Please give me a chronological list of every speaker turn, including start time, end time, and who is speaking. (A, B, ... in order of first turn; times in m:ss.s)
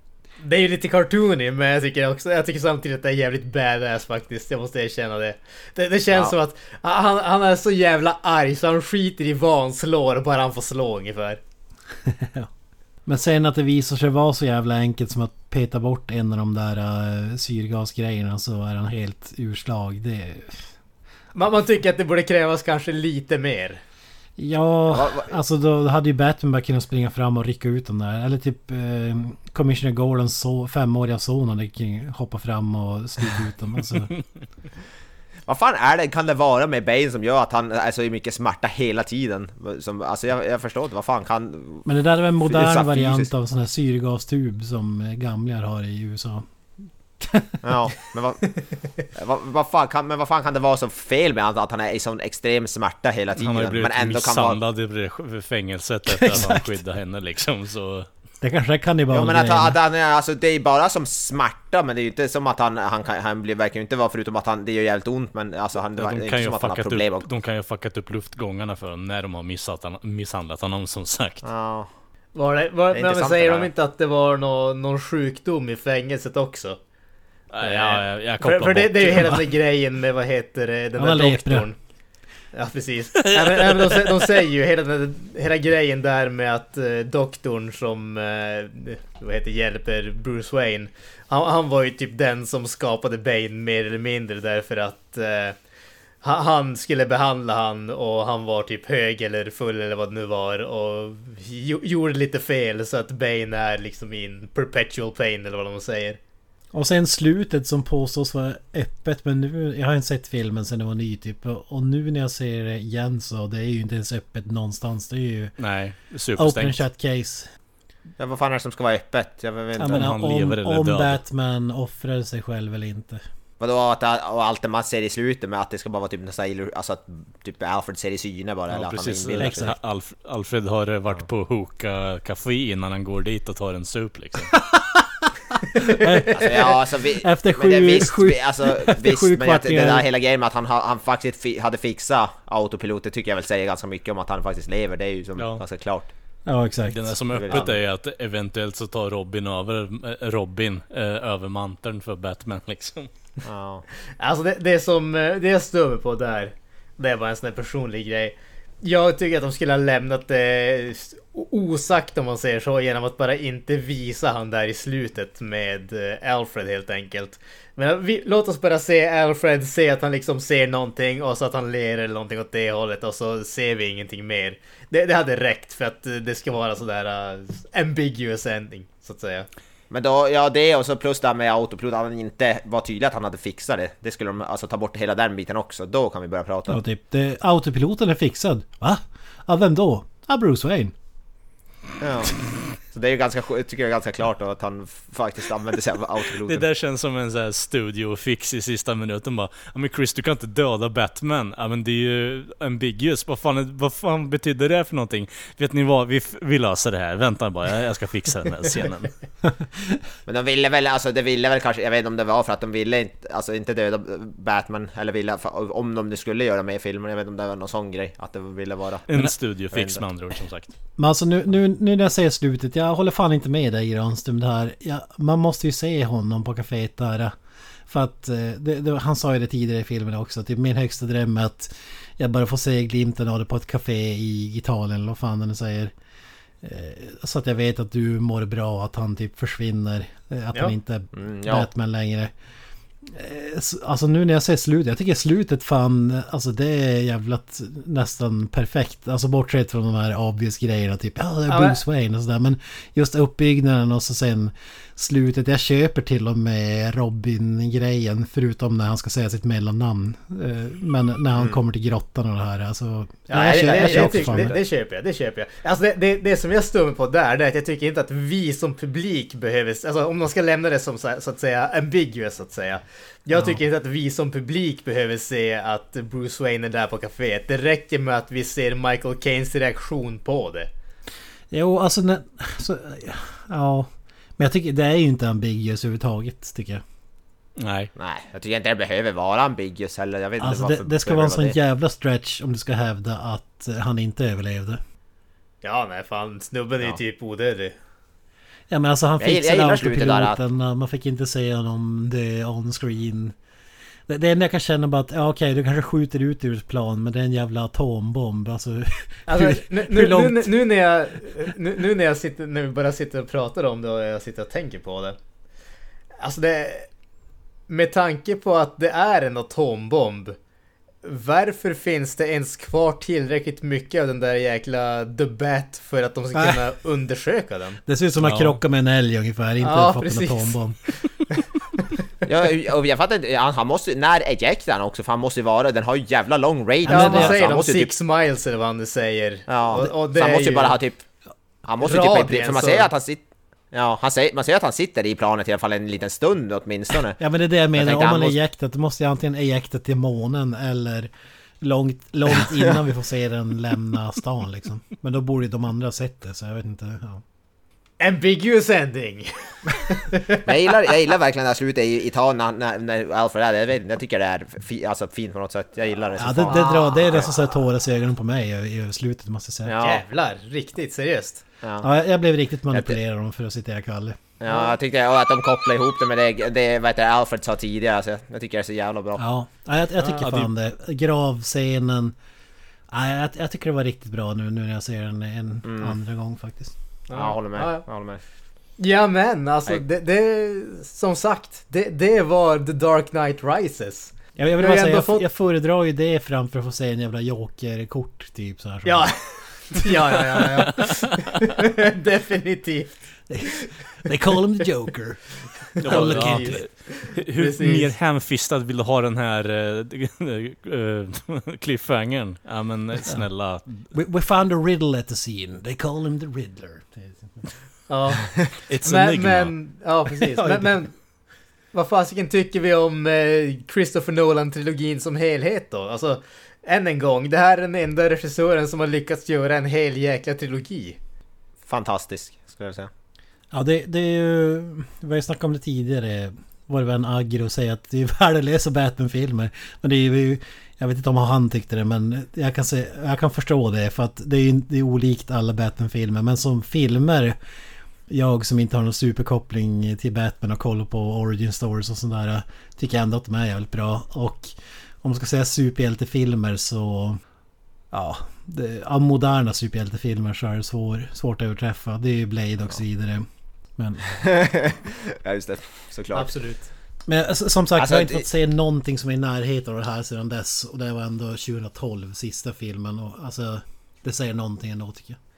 0:00.4-0:11.4 A
0:12.0-0:12.5 B
0:13.0-0:20.6 B
0:21.3-0:23.8 A
0:24.4-0:34.1 B
0:24.9-0:25.3 C
0:35.4-0:41.8 C
0:41.8-0:46.4 B
0:42.4-0:43.3 C
0:47.2-0:47.6 B
0:47.6-0:48.6 C
0:49.1-0:54.6 C
0:53.4-0:58.1 D
0:56.1-0:56.7 B
0:58.4-0:59.8 B
0:59.1-1:07.3 C
1:06.0-1:11.5 D
1:11.4-1:11.9 C
1:12.3-1:16.8 A
1:12.9-1:13.7 C
1:17.5-1:19.4 D
1:17.6-1:21.8 A
1:21.0-1:21.7 B
1:22.5-1:35.6 A
1:23.2-1:24.2 D
1:36.2-1:46.2 A
1:46.7-1:55.5 B
1:55.6-1:56.8 D
1:56.4-1:57.5 B
1:58.2-2:00.0 C
1:59.8-2:03.2 B
1:59.9-2:01.2 D
2:03.6-2:09.7 C
2:08.7-2:14.5 D
2:09.4-2:09.8 B
2:14.5-2:20.1 B
2:16.2-2:26.1 C
2:25.4-2:25.6 D
2:26.5-2:27.6 B
2:26.9-2:33.1 D
2:27.3-2:27.8 C
2:33.4-2:33.8 C
2:34.2-2:59.5 A
2:59.9-3:06.8 C
3:06.7-3:10.9 B
3:12.0-3:16.6 C
3:16.4-3:29.1 D
3:29.4-3:30.0 B
3:30.2-3:39.0 C
3:39.1-3:40.7 D
3:39.7-3:40.0 C
3:41.0-3:47.3 B
3:47.9-3:55.9 B
3:56.6-4:02.3 B
4:01.1-4:01.7 C
4:03.0-4:24.6 B
4:11.5-4:11.8 A
4:23.3-4:40.7 A
4:23.4-4:24.6 C
4:33.3-4:33.6 B
4:41.5-4:46.8 B
4:47.6-4:47.9 D
4:48.0-4:51.6 C
4:50.4-4:54.8 B
4:55.6-4:57.7 A
4:58.7-5:03.3 B
4:59.2-5:00.4 C
5:04.1-5:10.5 B
5:09.3-5:15.2 A
5:16.2-5:16.9 A
5:17.7-5:20.4 A
5:21.0-5:27.8 A
5:26.3-5:26.6 B
5:27.8-5:30.8 B
5:28.2-5:28.6 D
5:29.6-5:30.6 A
5:32.2-5:37.9 C
5:36.8-5:37.4 B
5:36.9-5:40.8 A
5:39.5-5:41.0 C
5:41.6-5:47.2 C
5:41.8-5:42.9 A
5:47.2-5:57.2 B
5:47.7-5:48.4 C
5:52.3-5:52.8 C
5:58.0-6:00.4 A
6:00.4-6:07.3 C
6:06.2-6:09.7 B
6:09.6-6:10.0 C
6:09.8-6:11.4 A
6:11.6-6:11.9 C
6:11.8-6:14.2 B
6:12.7-6:13.0 C
6:14.4-6:19.2 C
6:19.2-6:22.1 B
6:20.1-6:20.5 D
6:22.9-6:26.7 B
6:25.6-6:26.0 C
6:27.1-6:27.8 A
6:27.1-6:28.2 C
6:28.8-6:35.3 A
6:34.4-6:39.2 B
6:38.8-6:43.0 A
6:44.0-6:46.6 B
6:45.8-6:47.9 A
6:45.8-6:53.8 D
6:53.9-6:57.5 B
6:57.9-7:00.9 A
6:58.7-6:59.5 D
7:00.2-7:00.8 B
7:01.7-7:11.0 A
7:11.7-7:12.9 C
7:13.5-7:27.4 B
7:28.1-7:37.2 B
7:37.9-7:44.0 B
7:44.2-7:46.3 C
7:46.1-7:46.7 A
7:47.1-7:55.2 B
7:47.8-7:48.2 C